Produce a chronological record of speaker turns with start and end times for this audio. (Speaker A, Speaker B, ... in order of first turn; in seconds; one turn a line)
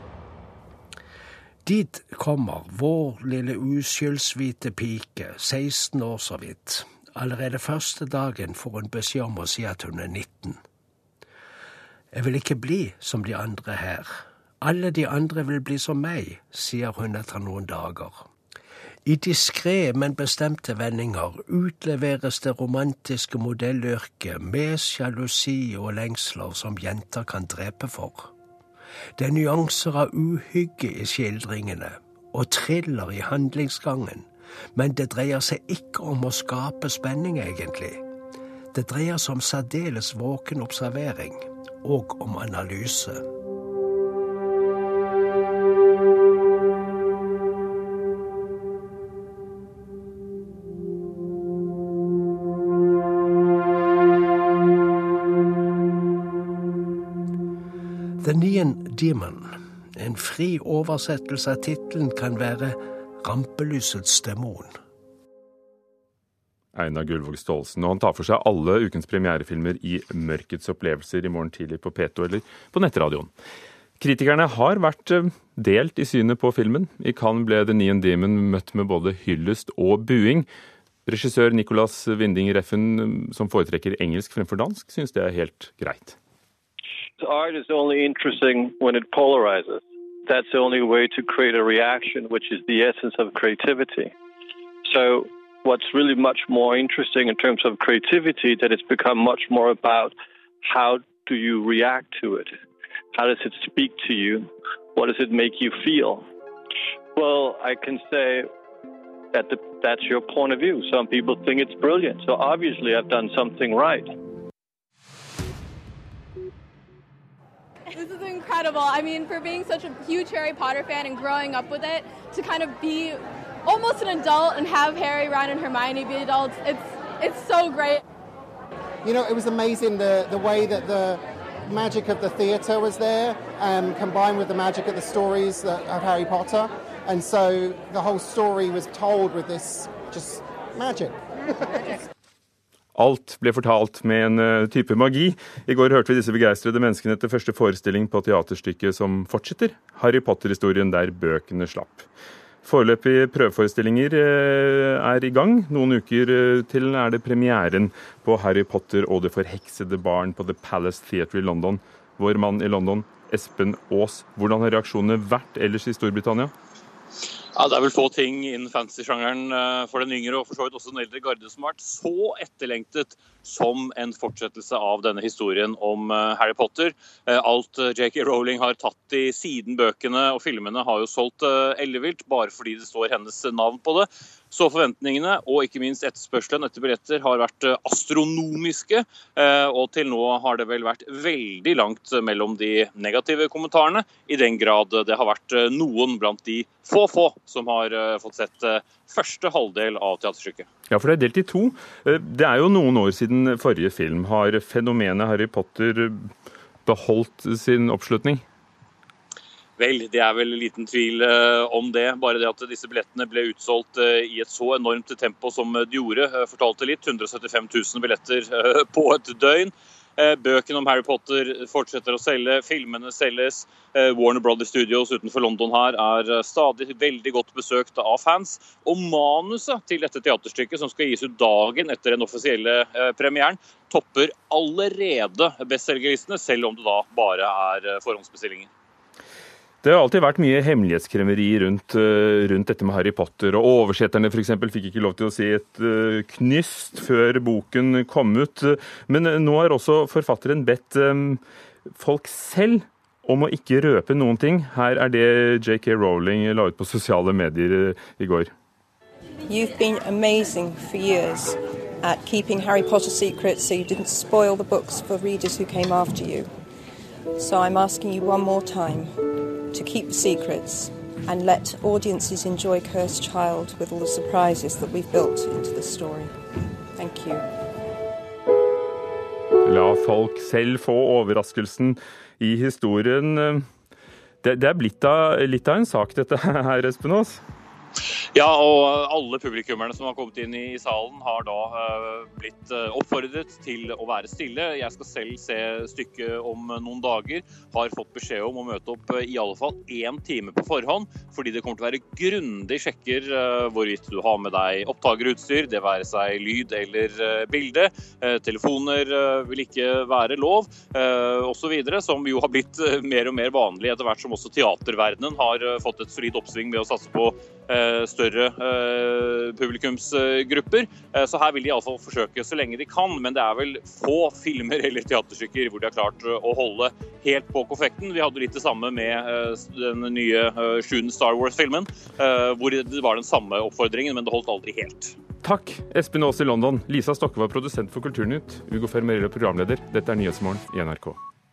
Speaker A: 1.6-10.6
Speaker A: 12.1-18.3
Speaker A: 19.0-28.3
Speaker A: 29.1-38.0
Speaker A: 38.7-43.2
Speaker A: 58.2-64.8
Speaker B: 66.7-73.3
Speaker B: 74.0-80.5
Speaker B: 81.0-86.2
Speaker C: 87.2-94.1
Speaker C: 94.8-102.5
Speaker C: 103.1-106.2
Speaker C: 107.1-108.5
Speaker C: 109.3-114.1
Speaker D: 117.9-128.0
Speaker E: 129.0-142.0
Speaker B: 142.9-152.1
Speaker B: 152.6-166.5
Speaker F: 167.5-200.7
Speaker B: 200.9-206.3
Speaker B: 206.8-208.4
Speaker F: 209.8-238.7
Speaker B: 239.8-251.4
Speaker B: 251.9-258.5
Speaker G: 259.5-266.5
Speaker G: 267.4-276.4
Speaker G: 276.9-277.5
Speaker B: 279.6-283.7
Speaker B: 284.4-287.4
Speaker F: 288.3-335.1
Speaker B: 335.4-341.2